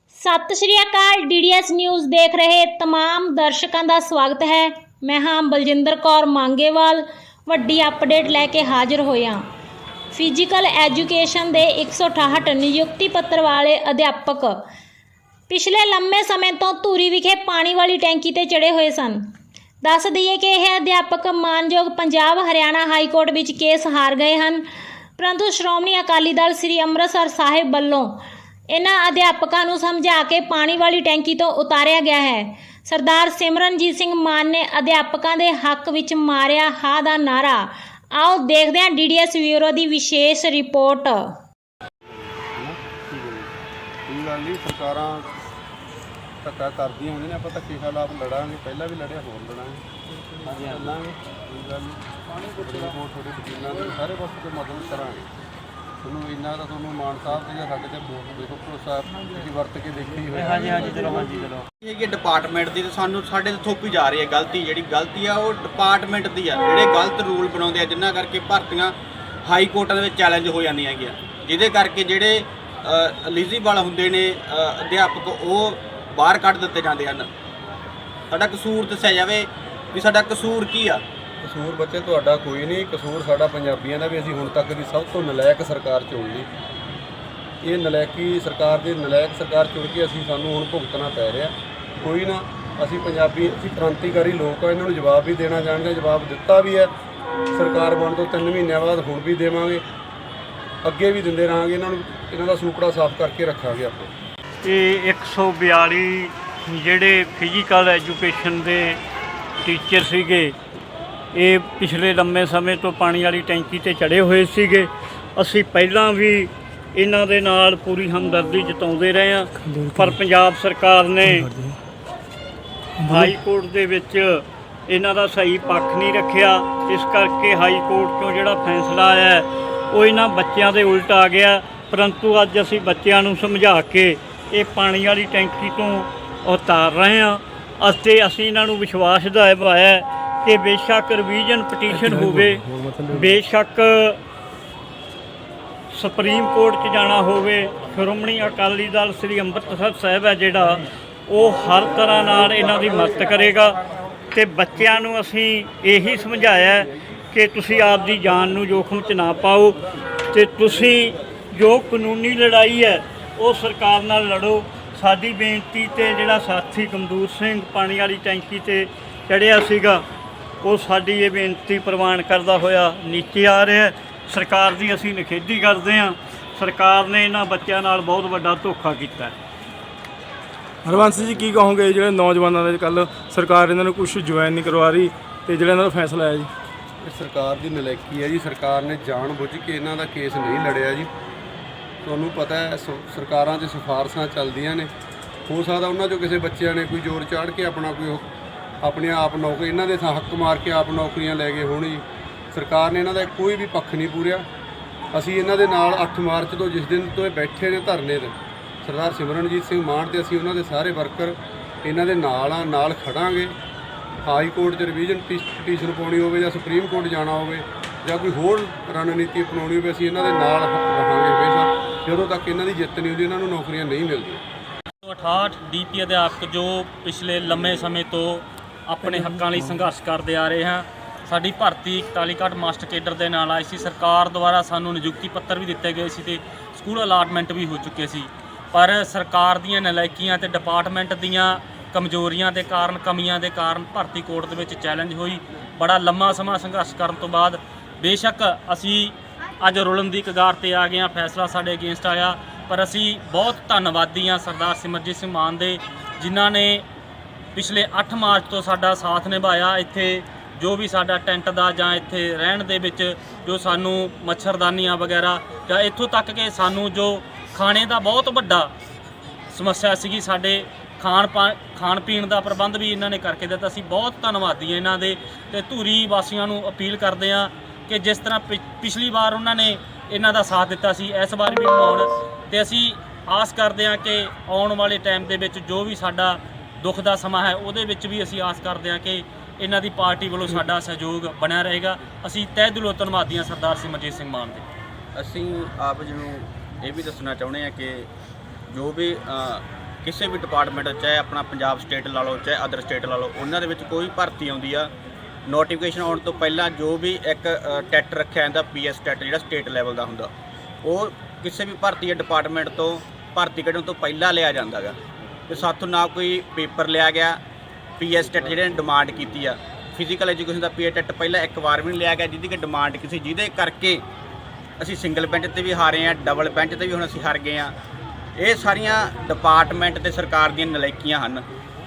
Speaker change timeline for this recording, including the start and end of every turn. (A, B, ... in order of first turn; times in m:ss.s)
0:00.1-0:09.4 A
0:10.1-0:14.6 A
0:15.5-0:19.3 A
0:19.8-0:24.6 A
0:25.2-0:41.4 A
0:42.2-0:43.5 B
0:44.1-0:45.3 B
0:46.4-0:49.8 B
0:50.4-0:55.3 B
0:56.0-1:01.4 B
1:00.8-1:01.5 C
1:01.8-1:17.3 D
1:18.3-1:21.0 D
1:21.4-1:26.5 B
1:27.6-1:36.9 B
1:37.5-1:39.8 B
1:40.8-1:44.1 B
1:44.6-1:49.0 E
1:49.6-1:50.5 E
1:51.3-2:01.5 E
1:59.6-2:00.2 C
2:01.2-2:01.7 C
2:03.1-2:22.6 E
2:21.9-2:23.3 C
2:23.1-2:24.2 E
2:25.9-2:33.8 E
2:34.3-2:39.8 E
2:40.3-2:50.0 E
2:50.6-2:59.4 E
3:00.8-3:06.5 C
3:07.0-3:11.1 B
3:12.0-3:14.9 B
3:15.5-3:18.3 B
3:18.8-3:24.5 B
3:25.1-3:33.6 B
3:34.2-3:44.4 B
3:45.0-4:16.8 F
4:17.6-4:28.7 F
4:29.5-4:54.6 F
4:55.2-4:58.1 D
4:58.7-5:04.9 D
5:05.5-5:10.3 D
5:10.8-5:15.0 D
5:15.5-5:17.4 D
5:18.0-5:24.0 D
5:24.8-5:27.7 D
5:28.4-5:31.5 D